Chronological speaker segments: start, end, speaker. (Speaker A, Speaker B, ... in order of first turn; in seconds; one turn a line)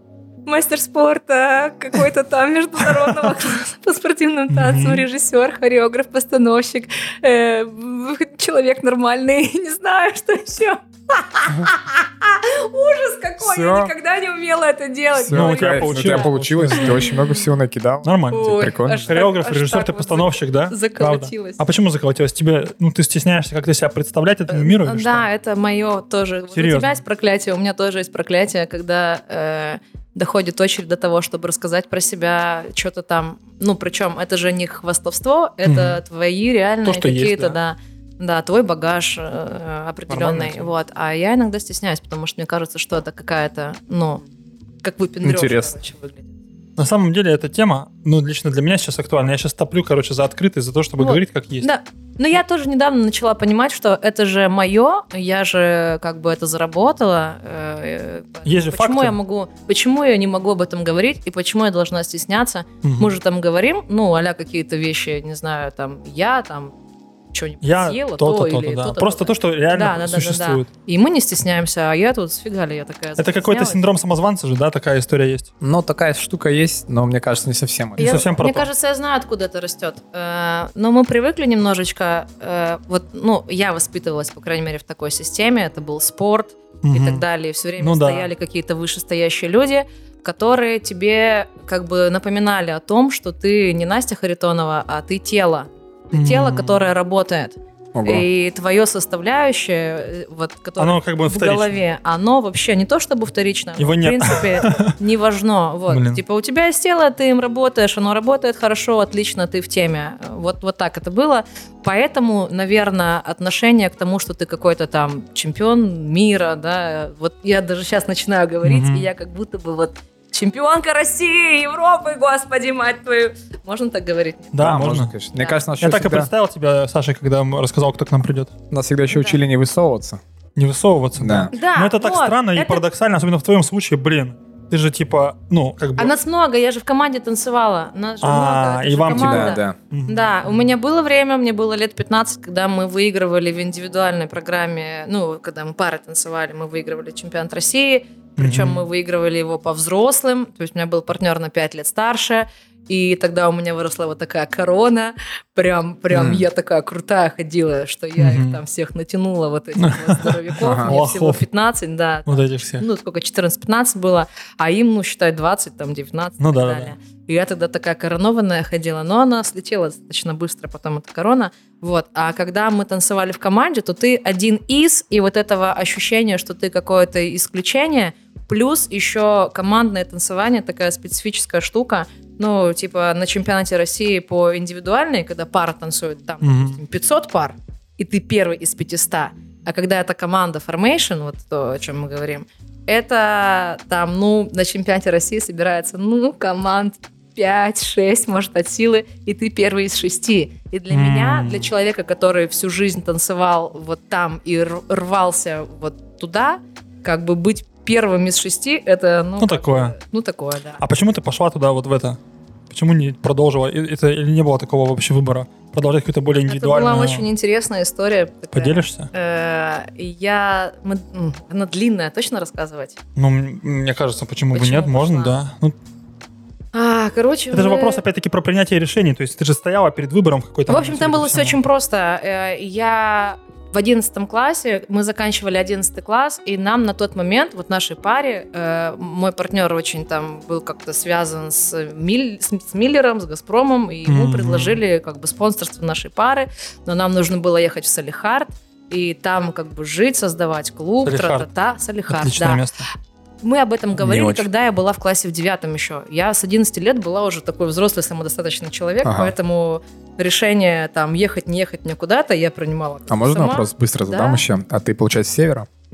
Speaker A: 0.5-17.1
Speaker B: 3.0-3.3
Speaker B: 4.5-5.0
Speaker C: 13.4-13.9
Speaker C: 15.2-19.1
Speaker B: 15.3-17.0
Speaker B: 18.0-18.6
Speaker A: 18.3-21.6
Speaker B: 19.1-25.3
Speaker A: 24.5-44.2
Speaker B: 26.5-27.0
Speaker B: 35.6-36.0
Speaker B: 36.8-37.6
Speaker C: 40.1-40.7
Speaker A: 44.8-46.3
Speaker C: 45.2-45.7
Speaker B: 46.8-51.7
Speaker A: 51.0-66.7
Speaker B: 58.5-59.1
Speaker B: 62.8-63.1
Speaker A: 67.3-73.8
Speaker B: 67.6-70.7
Speaker B: 73.2-75.5
Speaker C: 75.6-78.3
Speaker A: 78.0-124.6
Speaker B: 78.0-78.7
Speaker B: 86.8-87.2
Speaker B: 87.8-88.3
Speaker B: 96.1-96.8
Speaker C: 97.9-98.2
Speaker B: 100.8-101.8
Speaker B: 103.8-105.0
Speaker B: 105.9-106.2
Speaker B: 118.6-119.1
Speaker B: 124.5-125.1
Speaker C: 124.6-126.3
Speaker B: 125.8-128.5
Speaker C: 128.7-130.2
Speaker A: 129.1-129.4
Speaker B: 130.6-136.1
Speaker C: 131.2-131.5
Speaker A: 131.5-132.8
Speaker A: 136.0-210.8
Speaker B: 138.2-140.5
Speaker C: 139.1-139.8
Speaker B: 148.4-148.8
Speaker C: 156.1-156.4
Speaker B: 158.2-158.6
Speaker B: 159.8-161.4
Speaker C: 160.6-160.9
Speaker B: 162.3-162.8
Speaker B: 166.4-166.9
Speaker B: 186.4-186.8
Speaker B: 200.9-201.7
Speaker B: 209.4-209.9
Speaker B: 210.8-212.2
Speaker B: 212.7-217.3
Speaker A: 216.4-223.0
Speaker B: 218.5-219.1
Speaker B: 223.2-225.8
Speaker A: 224.5-225.3
Speaker A: 226.7-228.0
Speaker B: 227.5-231.6
Speaker A: 230.7-252.6
Speaker B: 244.1-244.8
Speaker B: 251.0-251.5
Speaker B: 252.1-252.9
Speaker A: 253.4-264.4
Speaker C: 254.0-254.5
Speaker C: 259.0-259.3
Speaker C: 263.1-265.7